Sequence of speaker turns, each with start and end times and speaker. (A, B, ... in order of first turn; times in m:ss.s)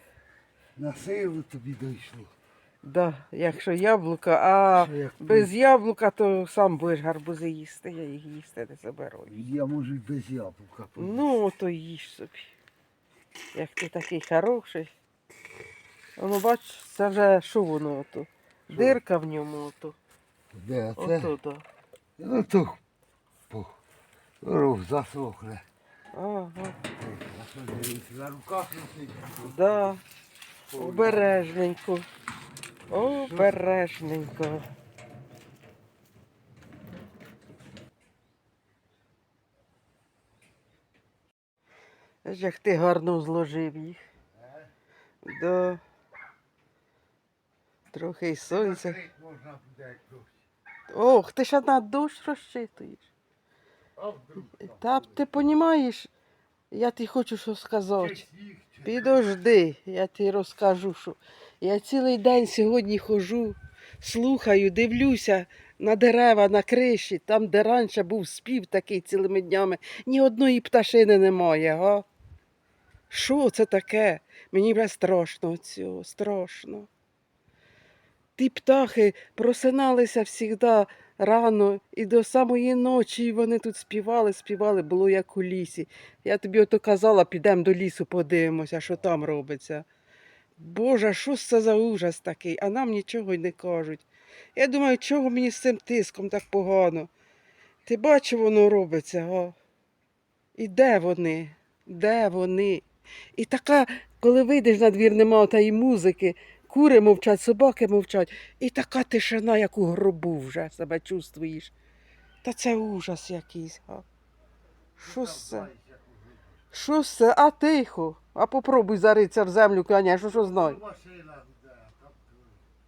0:00.8-0:02.3 A
0:02.8-0:09.4 B
0:04.7-0:05.5 A
0:09.3-0:11.2 A
0:11.0-0:12.6 B
0:13.5-0:14.9 B
0:16.2-0:20.0 B
0:18.7-0:19.0 A
0:20.5-0:21.3 A
0:21.0-0:21.6 B
0:22.2-0:22.8 A
0:23.5-0:23.8 A
0:24.4-0:25.7 A
0:26.1-0:26.8 B
0:26.9-0:30.0 A
0:29.4-0:30.0 B
0:30.7-0:31.5 A
0:30.8-0:32.1 B
0:32.9-0:34.6 B
0:33.1-0:33.6 A
0:42.2-0:44.0 B
0:44.3-0:44.7 A
0:45.2-0:45.8 B
0:47.9-0:49.0 B
0:48.5-0:50.4 A
0:50.9-0:53.1 B
0:54.0-0:55.3 A
0:54.6-0:56.1 B
0:56.7-0:58.2 B
0:58.0-0:59.2 A
0:58.8-1:12.0 B
1:13.1-1:16.9 B
1:18.4-1:29.9 B
1:30.6-1:37.1 B
1:37.9-1:39.6 B
1:40.6-1:42.8 B
1:43.4-1:51.7 B
1:52.4-1:54.0 B
1:55.0-1:55.7 B
1:55.0-1:56.6 A
1:56.7-2:00.8 B
2:00.3-2:02.6 A